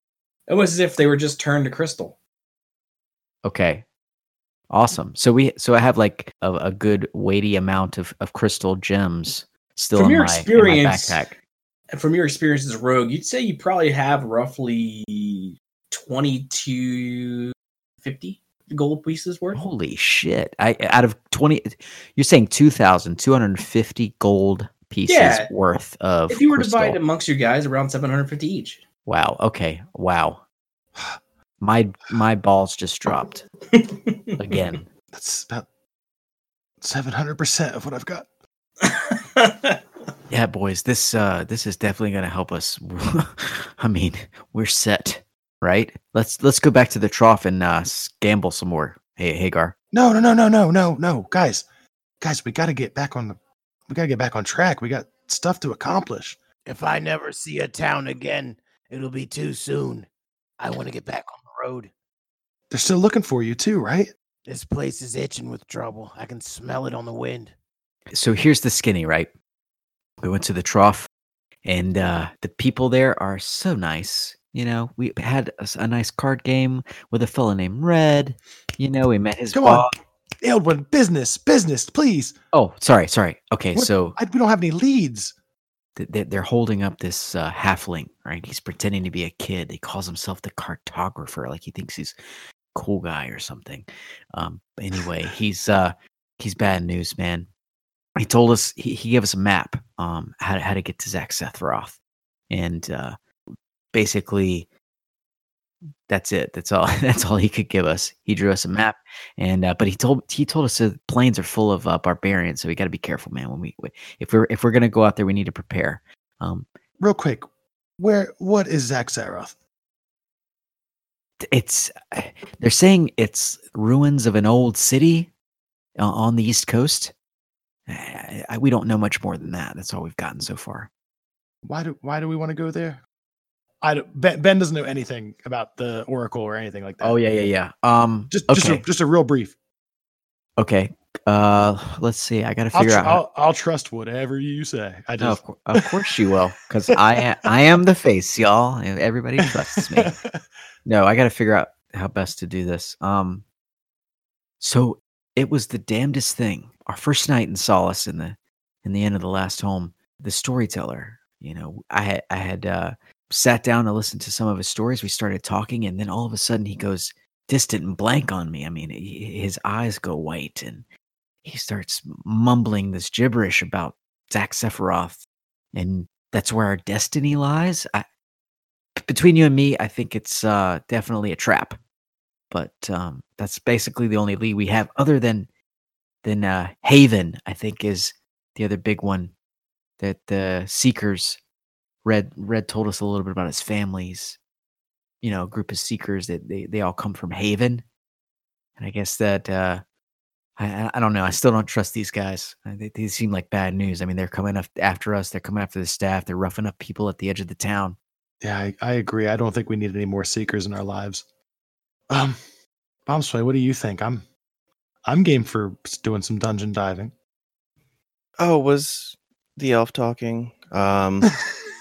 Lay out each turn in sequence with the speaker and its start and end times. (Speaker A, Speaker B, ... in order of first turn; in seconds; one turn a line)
Speaker A: 0.5-2.1
Speaker B: 3.4-3.9
Speaker B: 4.7-11.4
Speaker A: 9.9-11.2
Speaker A: 11.9-19.6
Speaker B: 19.5-27.0
Speaker A: 25.1-25.5
Speaker A: 26.3-28.8
Speaker B: 29.1-30.4
Speaker B: 31.6-33.4
Speaker A: 33.7-34.4
Speaker B: 34.4-34.9
Speaker C: 35.1-35.7
Speaker C: 36.8-38.2
Speaker A: 38.8-39.8
Speaker B: 40.3-49.7
Speaker C: 49.9-51.6
Speaker C: 52.2-53.4
Speaker C: 53.9-56.4
Speaker D: 56.7-60.1
Speaker D: 60.6-61.9
Speaker C: 62.7-64.1
Speaker D: 64.5-67.5
Speaker B: 68.1-69.3
Speaker B: 70.2-71.1
Speaker B: 71.6-79.9
Speaker C: 79.5-79.9
Speaker C: 80.4-82.3
Speaker B: 82.5-84.2
Speaker C: 83.7-85.3
Speaker B: 86.0-92.2
Speaker B: 92.7-97.5
Speaker B: 98.2-102.0
Speaker B: 102.5-103.2
Speaker B: 103.9-104.7
Speaker B: 106.1-116.7
Speaker C: 117.0-117.5
Speaker C: 118.0-119.5
Speaker B: 121.4-125.3
Speaker B: 126.0-127.1
Speaker B: 127.9-130.9
Speaker C: 131.6-133.0
Speaker C: 133.8-137.2
Speaker B: 137.0-138.8
Speaker C: 138.3-139.6
Speaker B: 140.6-143.2
Speaker C: 142.7-145.8
Speaker B: 145.2-150.1
Speaker C: 149.4-150.4
Speaker B: 150.8-153.4
Speaker B: 154.6-170.8
Speaker B: 171.4-175.2
Speaker B: 175.7-178.0
Speaker B: 179.0-181.8
Speaker B: 182.5-185.5
Speaker B: 186.2-189.3
Speaker B: 190.0-191.4
Speaker B: 192.0-194.4
Speaker B: 195.2-197.8
Speaker B: 198.8-199.8
Speaker B: 200.6-208.0
Speaker C: 208.4-211.2
Speaker C: 212.1-212.4
Speaker C: 213.1-214.2
Speaker C: 215.0-217.1
Speaker E: 218.4-221.2